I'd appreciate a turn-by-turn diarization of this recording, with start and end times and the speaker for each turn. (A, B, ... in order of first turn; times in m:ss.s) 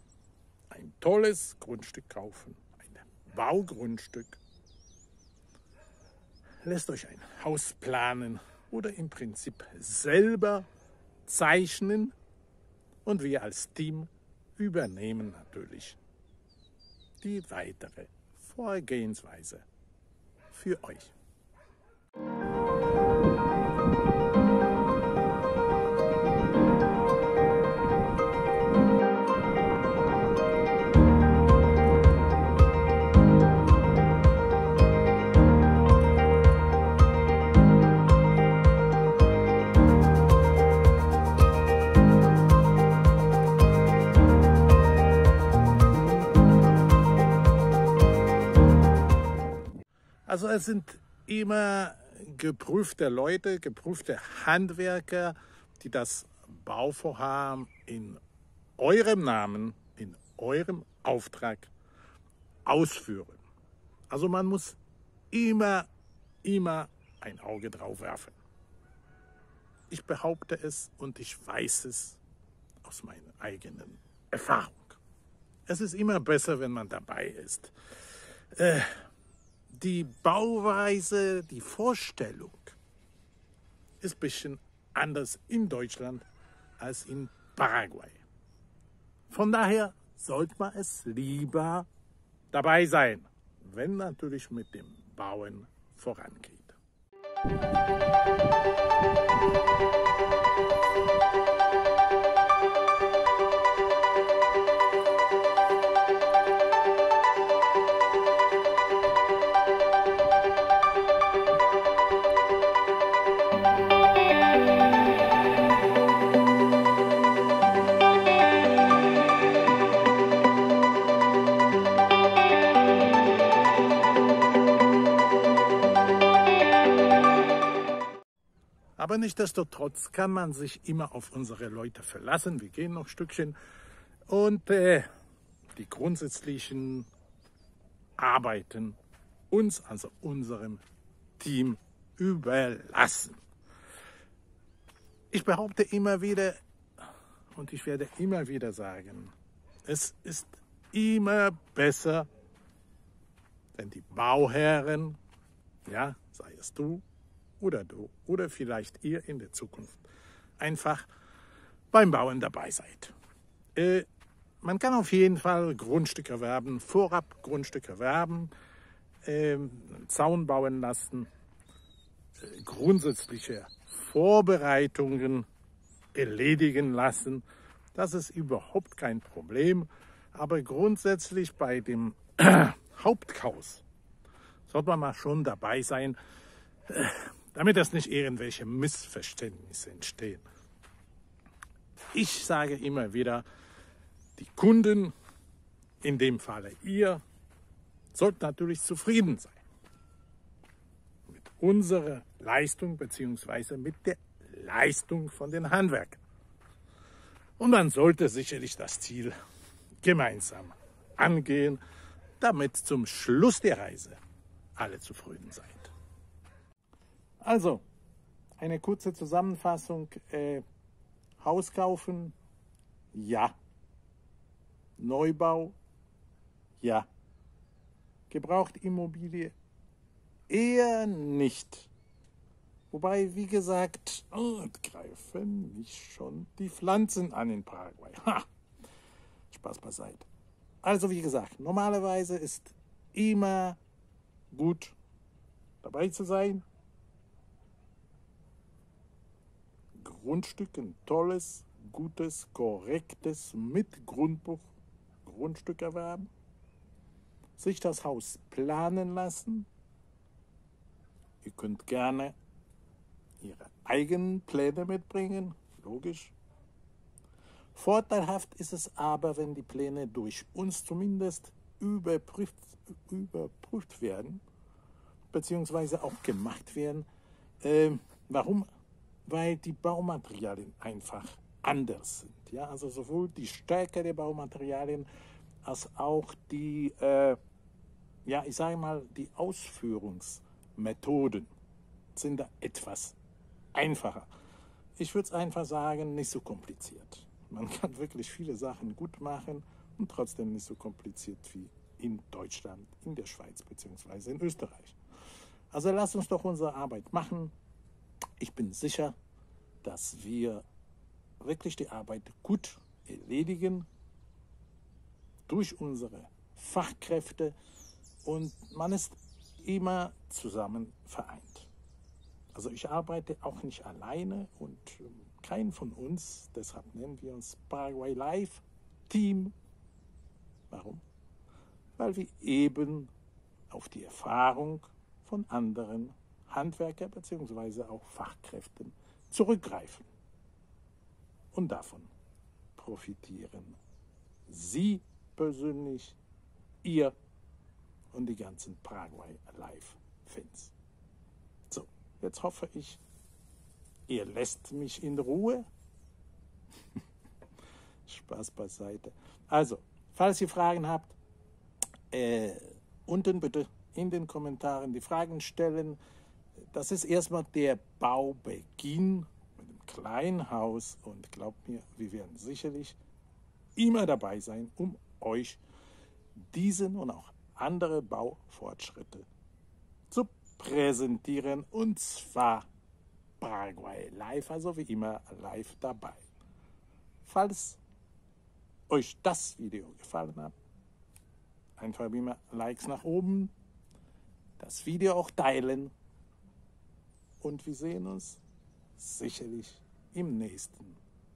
0:00.7-0:04.4 A
0:06.6-0:10.7 A
0:11.2-0:12.2 A
0:13.0-0:16.0 A
0:17.2-0:19.7 A
0:20.5-0:21.1 A
0:50.2-0:58.2 A
0:58.8-1:01.7 A
1:02.6-1:03.4 A
1:04.1-1:04.8 A
1:05.3-1:05.9 A
1:06.4-1:08.4 A
1:09.9-1:12.2 A
1:12.8-1:15.0 A
1:15.7-1:17.7 A
1:18.5-1:19.0 A
1:19.7-1:22.8 A
1:24.0-1:26.2 A
1:26.8-1:28.2 A
1:29.3-1:31.9 A
1:32.5-1:36.8 A
2:09.0-2:13.6 A
2:14.3-2:15.1 A
2:15.8-2:17.1 A
2:18.2-2:19.0 A
2:19.5-2:20.8 A
2:21.4-2:23.4 A
2:25.3-2:26.6 A
2:27.5-2:29.3 A
2:29.8-2:32.3 A
2:33.7-2:35.2 A
2:35.8-2:37.0 A
2:37.6-2:40.0 A
2:40.6-2:41.1 A
2:41.9-2:43.1 A
2:43.7-2:44.1 A
2:44.6-2:48.5 A
2:49.2-2:51.3 A
2:52.4-2:55.5 A
2:56.1-3:03.8 A
3:04.7-3:06.2 A
3:06.9-3:10.4 A
3:12.1-3:13.5 A
3:14.4-3:15.1 A
3:16.0-3:17.2 A
3:18.1-3:19.6 A
3:21.3-3:26.2 A
3:27.6-3:29.3 A
3:30.0-3:31.8 A
3:32.4-3:34.2 A
3:34.8-3:35.9 A
3:37.4-3:37.8 A
3:38.6-3:40.6 A
3:41.4-3:42.4 A
3:43.1-3:43.6 A
3:45.0-3:45.8 A
3:46.8-3:47.1 A
3:48.3-3:49.5 A
3:50.5-3:51.9 A
3:52.9-3:58.5 A
3:59.5-4:00.3 A
4:00.8-4:03.8 A
4:04.5-4:05.0 A
4:05.8-4:06.6 A
4:10.0-4:14.7 A
4:15.2-4:16.3 A
4:17.6-4:19.7 A
4:21.4-4:22.4 A
4:23.4-4:26.4 A
4:27.8-4:34.4 A
4:35.3-4:37.1 A
4:37.6-4:38.7 A
4:39.2-4:45.1 A
4:45.6-4:47.4 A
4:48.2-4:51.5 A
4:52.2-4:53.2 A
4:53.7-4:54.3 A
4:55.0-5:05.0 A
5:05.7-5:07.5 A
5:08.4-5:09.2 A
5:09.8-5:10.6 A
5:11.4-5:13.9 A
5:15.5-5:17.6 A
5:18.2-5:21.7 A
5:22.5-5:29.6 A
5:30.7-5:31.0 A
5:32.0-5:33.1 A
5:33.7-5:40.1 A
5:41.5-5:42.1 A
5:42.8-5:43.8 A
5:44.5-5:46.2 A
5:46.8-5:47.2 A
5:48.1-5:50.7 A
5:51.7-5:53.0 A
5:54.1-5:55.6 A
5:58.1-6:01.2 A
6:02.1-6:06.0 A
6:06.7-6:13.0 A
6:13.8-6:15.6 A
6:16.4-6:19.3 A
6:20.1-6:22.7 A
6:23.4-6:26.2 A
6:27.2-6:27.8 A
6:28.9-6:30.6 A
6:31.8-6:33.5 A
6:34.6-6:35.9 A
6:37.4-6:38.4 A
6:39.0-6:41.0 A